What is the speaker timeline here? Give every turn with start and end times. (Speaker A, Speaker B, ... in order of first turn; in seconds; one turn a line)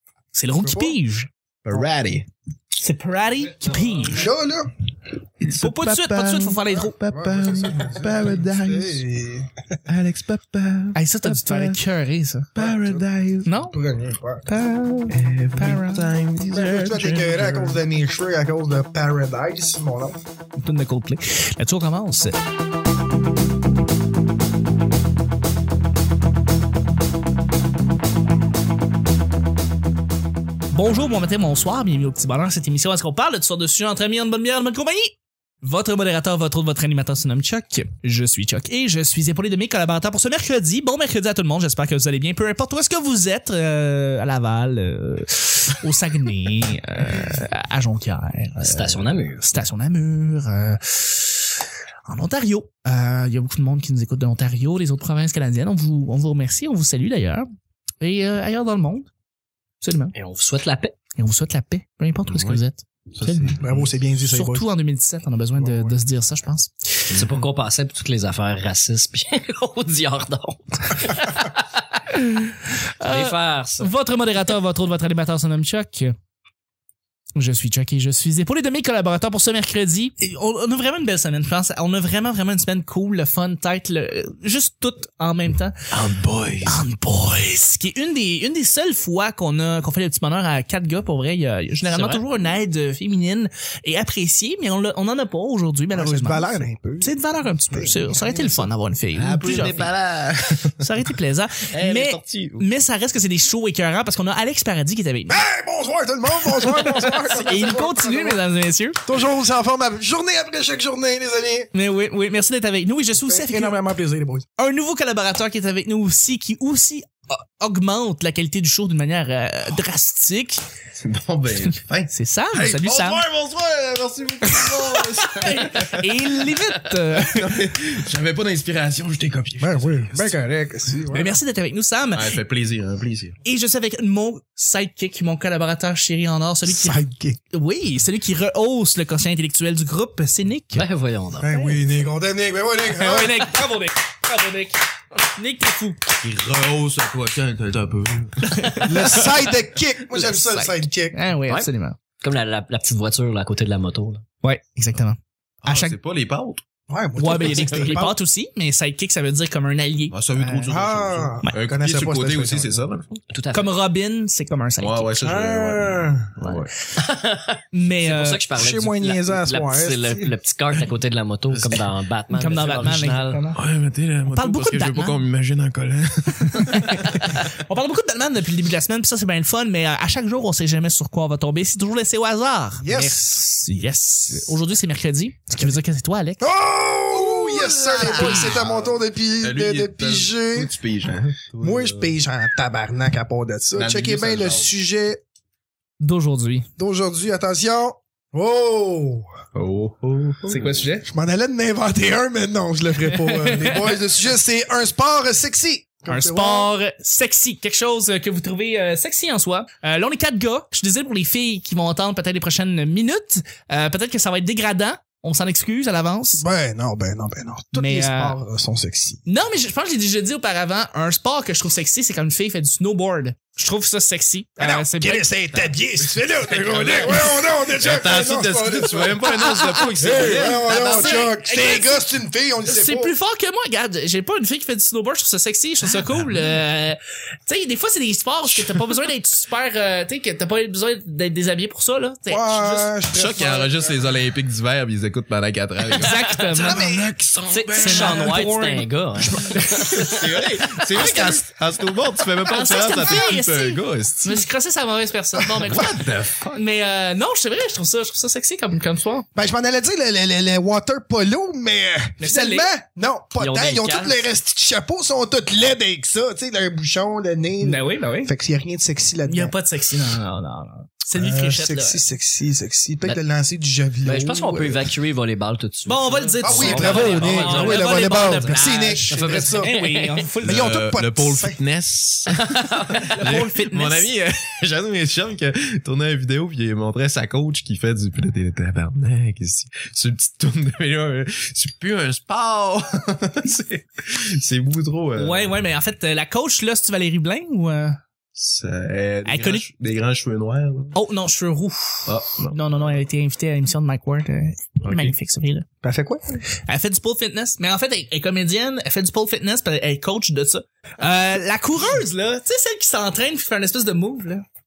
Speaker A: 0.3-1.3
Speaker B: 0.6-1.0
Speaker C: 1.6-2.3
Speaker A: 2.8-4.3
Speaker B: 4.1-4.7
Speaker C: 5.4-9.0
Speaker A: 5.5-7.0
Speaker B: 7.1-9.8
Speaker C: 9.9-11.8
Speaker A: 10.9-12.5
Speaker C: 12.5-13.5
Speaker B: 12.6-13.0
Speaker A: 13.4-13.8
Speaker B: 13.6-14.4
Speaker A: 14.5-16.1
Speaker C: 15.1-17.8
Speaker B: 16.4-20.2
Speaker A: 20.6-22.4
Speaker A: 30.7-51.5
Speaker D: 48.6-49.5
Speaker A: 52.1-57.4
Speaker A: 58.0-59.1
Speaker A: 59.8-60.1
Speaker D: 60.1-60.9
Speaker A: 61.1-63.6
Speaker C: 62.3-62.6
Speaker C: 63.1-63.8
Speaker B: 63.6-64.7
Speaker A: 64.2-66.7
Speaker B: 65.5-66.0
Speaker D: 67.1-71.8
Speaker A: 72.1-76.1
Speaker D: 73.0-73.9
Speaker A: 77.3-85.8
Speaker C: 85.9-86.8
Speaker A: 86.6-99.8
Speaker C: 91.9-92.2
Speaker B: 95.9-97.2
Speaker B: 97.7-98.7
Speaker C: 99.2-100.9
Speaker A: 100.8-105.4
Speaker C: 101.7-102.7
Speaker B: 105.3-108.4
Speaker C: 107.2-107.7
Speaker A: 107.3-109.0
Speaker B: 109.0-111.7
Speaker A: 111.7-113.8
Speaker B: 113.1-114.5
Speaker A: 114.6-120.6
Speaker C: 121.0-130.3
Speaker A: 122.1-123.2
Speaker A: 124.8-127.6
Speaker B: 129.6-131.4
Speaker A: 131.1-132.3
Speaker C: 132.1-133.3
Speaker A: 133.4-137.0
Speaker B: 136.7-137.4
Speaker A: 137.5-140.9
Speaker D: 140.7-141.6
Speaker B: 141.4-143.5
Speaker A: 142.9-144.8
Speaker A: 145.3-146.0
Speaker C: 146.1-148.9
Speaker A: 148.4-149.2
Speaker B: 148.8-151.2
Speaker A: 150.1-152.0
Speaker D: 152.2-154.2
Speaker A: 154.4-156.0
Speaker C: 155.6-156.6
Speaker B: 156.9-158.2
Speaker A: 157.2-160.7
Speaker C: 160.1-163.2
Speaker B: 160.7-162.8
Speaker D: 163.3-163.7
Speaker A: 163.5-165.2
Speaker C: 164.8-166.7
Speaker B: 165.2-166.3
Speaker D: 166.4-173.4
Speaker A: 167.7-168.4
Speaker B: 168.5-170.3
Speaker C: 171.5-171.9
Speaker A: 172.3-173.3
Speaker B: 173.3-173.6
Speaker C: 173.6-177.4
Speaker A: 174.3-175.2
Speaker A: 176.3-186.4
Speaker B: 182.8-183.5
Speaker B: 186.4-190.7
Speaker C: 187.1-192.1
Speaker A: 188.1-188.6
Speaker B: 191.6-195.2
Speaker C: 193.7-194.7
Speaker A: 196.0-196.7
Speaker B: 196.8-199.3
Speaker C: 199.5-200.9
Speaker A: 200.5-201.1
Speaker B: 201.0-206.7
Speaker A: 203.1-203.9
Speaker A: 206.1-216.4
Speaker B: 216.4-219.2
Speaker A: 217.7-218.4
Speaker A: 219.2-225.7
Speaker B: 224.6-229.3
Speaker C: 226.5-231.3
Speaker A: 229.2-232.0
Speaker B: 230.0-233.1
Speaker A: 232.6-242.9
Speaker B: 242.3-244.2
Speaker C: 243.1-248.5
Speaker A: 245.9-247.0
Speaker D: 247.5-250.2
Speaker A: 247.8-248.9
Speaker B: 249.2-249.6
Speaker C: 249.6-254.4
Speaker B: 250.9-251.4
Speaker A: 252.5-259.2
Speaker C: 255.6-256.6
Speaker B: 259.3-269.5
Speaker A: 262.2-262.7
Speaker D: 263.4-264.3
Speaker A: 267.6-268.3
Speaker A: 269.2-272.0
Speaker B: 271.1-274.9
Speaker D: 274.0-280.2
Speaker A: 275.8-280.8
Speaker B: 276.4-279.8
Speaker C: 280.4-295.6
Speaker B: 280.4-281.6
Speaker D: 282.4-283.3
Speaker A: 283.1-284.1
Speaker A: 295.2-298.0
Speaker C: 298.3-300.9
Speaker A: 299.2-299.6
Speaker A: 300.9-305.6
Speaker C: 302.1-303.0
Speaker C: 304.8-305.1
Speaker B: 305.8-306.4
Speaker A: 306.7-314.4